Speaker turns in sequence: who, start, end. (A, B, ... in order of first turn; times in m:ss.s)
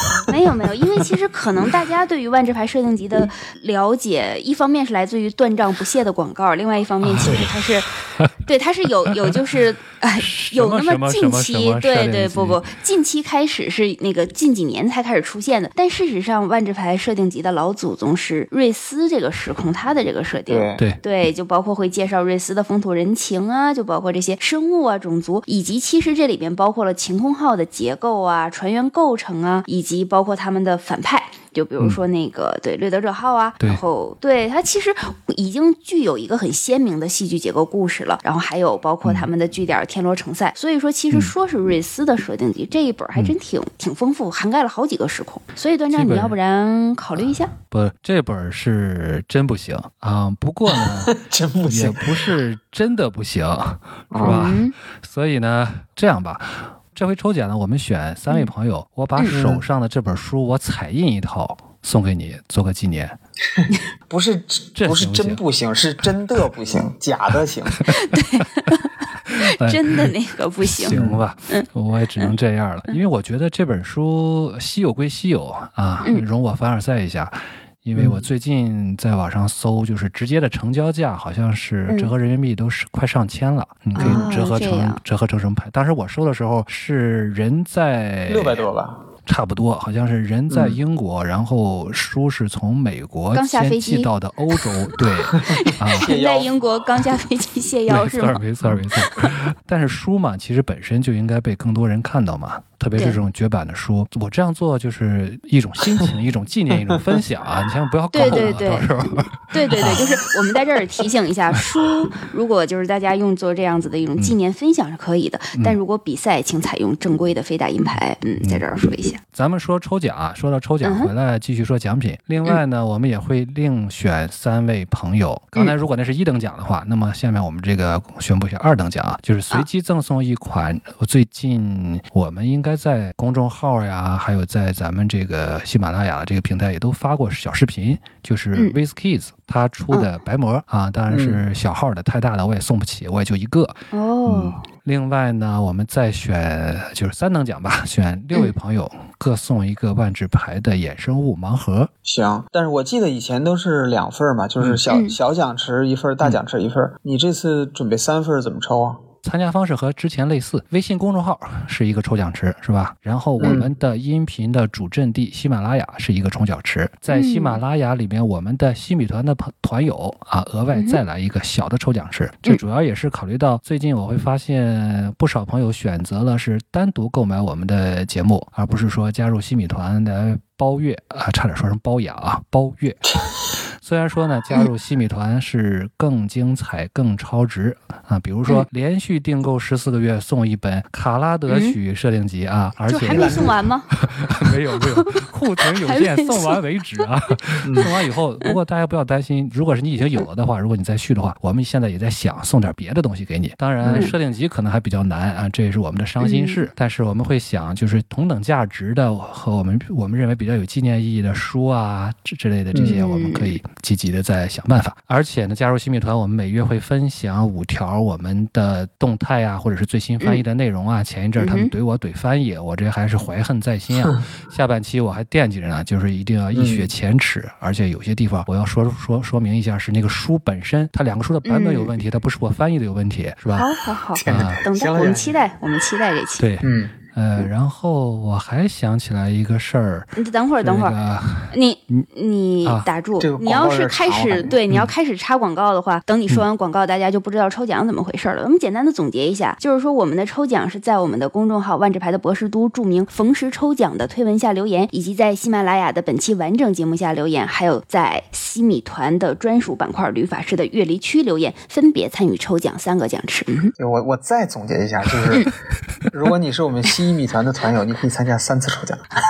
0:00.3-0:07.9 A
0:07.0-0:07.5 B
0:08.4-0:47.5 A
0:10.2-0:12.6 B
0:20.5-0:20.8 C
0:39.0-0:39.3 B
0:45.9-0:46.4 B
0:47.7-0:51.1 B
0:50.7-0:52.3 C
0:51.7-1:03.1 B
0:54.1-0:54.5 C
0:54.2-0:54.7 A
0:59.3-0:59.6 C
1:03.6-1:07.8 C
1:04.8-1:05.4 B
1:07.8-1:08.4 B
1:07.9-1:11.0 A
1:09.4-1:10.1 B
1:10.7-1:28.6 B
1:10.9-1:11.2 C
1:11.5-1:12.3 A
1:17.9-1:18.2 C
1:24.0-1:25.0 A
1:24.0-1:24.3 C
1:28.3-1:29.0 C
1:29.2-1:36.1 B
1:30.5-1:30.8 C
1:33.3-1:34.1 A
1:35.4-1:38.4 A
1:35.4-1:36.6 C
1:37.9-1:50.1 B
1:42.9-1:43.2 A
1:48.1-1:48.9 A
1:48.2-1:48.6 C
1:49.5-1:59.2 A
1:59.3-2:31.9 B
2:00.8-2:01.1 A
2:21.1-2:21.4 C
2:23.9-2:24.6 A
2:32.0-2:39.0 C
2:34.9-2:35.2 A
2:39.2-3:03.0 B
2:43.4-2:43.7 C
2:47.1-2:47.6 A
2:50.7-2:51.0 A
3:03.8-3:53.7 B
3:11.5-3:11.8 A
3:12.9-3:13.9 A
3:13.1-3:13.6 C
3:14.8-3:15.1 A
3:15.8-3:16.6 A
3:17.6-3:17.9 C
3:23.8-3:24.1 C
3:23.9-3:24.1 A
3:26.2-3:26.6 A
3:32.7-3:33.0 C
3:32.8-3:33.6 A
3:41.4-3:41.7 A
3:46.5-3:46.9 C
3:51.4-3:51.9 A
3:53.5-3:56.4 A
3:54.1-3:55.4 C
3:54.2-3:54.6 B
3:56.4-4:00.1 B
3:56.6-3:57.0 C
4:00.2-4:01.0 A
4:00.6-4:01.6 B
4:01.5-4:23.7 A
4:03.2-4:04.6 C
4:23.8-4:25.5 C
4:26.1-4:29.0 C